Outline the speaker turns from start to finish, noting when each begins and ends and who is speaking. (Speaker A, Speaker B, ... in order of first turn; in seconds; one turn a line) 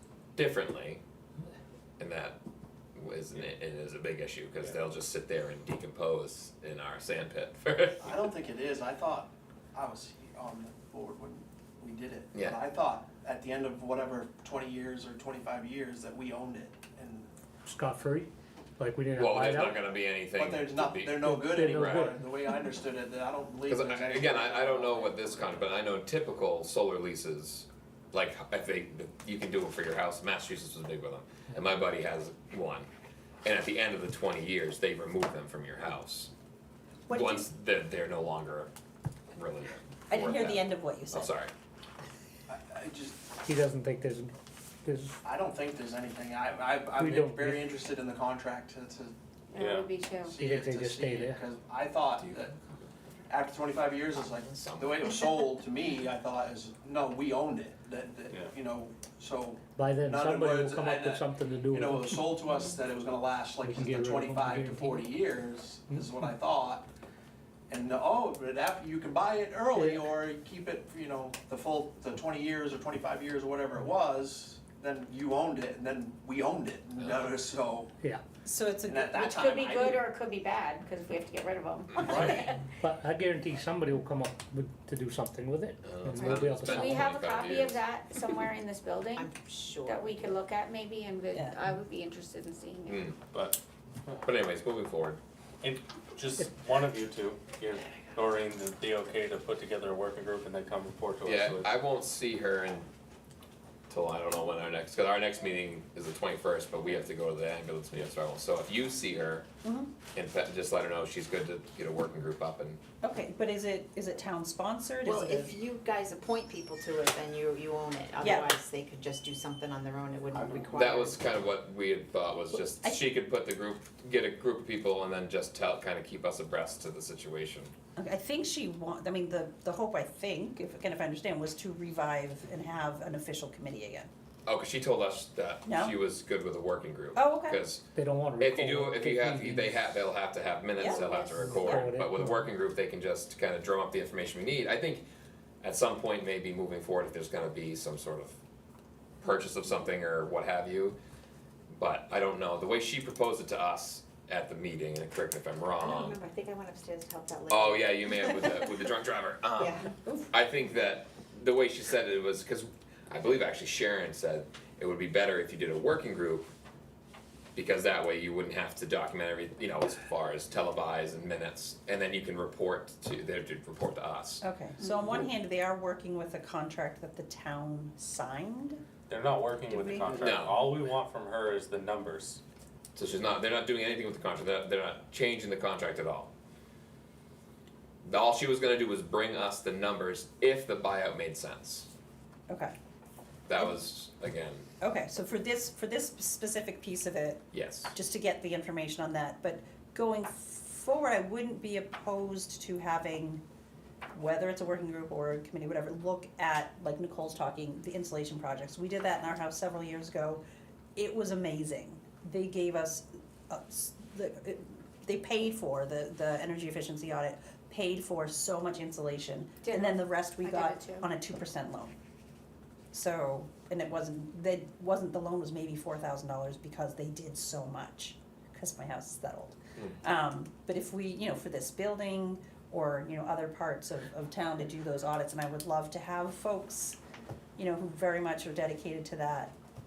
Speaker A: 0.4-1.0
Speaker A: 2.0-2.4
Speaker A: 3.0-8.3
Speaker B: 8.0-17.3
Speaker C: 17.7-19.8
Speaker A: 19.1-22.1
Speaker B: 20.4-25.5
Speaker C: 21.2-22.6
Speaker A: 23.7-32.9
Speaker A: 33.4-36.3
Speaker D: 37.1-37.5
Speaker A: 37.1-38.7
Speaker A: 39.4-41.5
Speaker D: 40.1-41.3
Speaker B: 42.5-43.3
Speaker C: 43.4-44.3
Speaker C: 44.8-45.2
Speaker B: 45.2-49.1
Speaker C: 47.0-47.6
Speaker E: 49.5-50.4
Speaker F: 49.6-49.9
Speaker B: 50.2-52.5
Speaker C: 50.3-51.4
Speaker B: 53.3-66.9
Speaker A: 54.4-55.3
Speaker C: 59.8-62.5
Speaker C: 63.6-65.2
Speaker C: 65.9-66.2
Speaker B: 67.7-77.9
Speaker C: 69.7-70.1
Speaker A: 77.0-77.3
Speaker D: 78.4-79.4
Speaker B: 78.9-80.0
Speaker E: 79.3-82.6
Speaker B: 82.0-82.5
Speaker C: 82.2-87.2
Speaker A: 85.8-87.8
Speaker E: 86.2-93.1
Speaker G: 89.2-90.4
Speaker A: 92.9-93.2
Speaker F: 93.3-94.2
Speaker A: 94.2-95.2
Speaker F: 95.6-101.8
Speaker A: 101.2-102.9
Speaker A: 103.9-109.5
Speaker D: 109.6-110.0
Speaker A: 110.1-112.8
Speaker D: 113.0-115.6
Speaker G: 115.0-121.2
Speaker D: 118.2-118.5
Speaker F: 120.4-120.7
Speaker A: 120.7-127.7
Speaker D: 122.5-123.1
Speaker D: 128.0-134.1
Speaker A: 134.5-137.9
Speaker D: 135.7-136.0
Speaker D: 137.1-137.6
Speaker C: 137.9-140.0
Speaker A: 138.4-145.1
Speaker D: 140.8-141.9
Speaker C: 141.5-142.5
Speaker A: 145.6-148.4
Speaker A: 149.2-151.0
Speaker A: 151.7-156.2
Speaker G: 155.8-158.2
Speaker A: 157.5-166.5
Speaker G: 159.6-159.9
Speaker D: 160.0-160.2
Speaker A: 167.6-174.4
Speaker D: 174.4-178.8
Speaker F: 179.1-182.4
Speaker D: 179.7-180.2
Speaker A: 180.2-180.7
Speaker A: 183.0-186.3
Speaker A: 188.1-191.9
Speaker A: 193.5-194.7
Speaker D: 194.8-203.4
Speaker A: 197.5-197.9
Speaker D: 204.1-210.4
Speaker D: 211.0-222.0
Speaker E: 219.6-221.1
Speaker D: 222.9-237.0
Speaker D: 237.6-239.5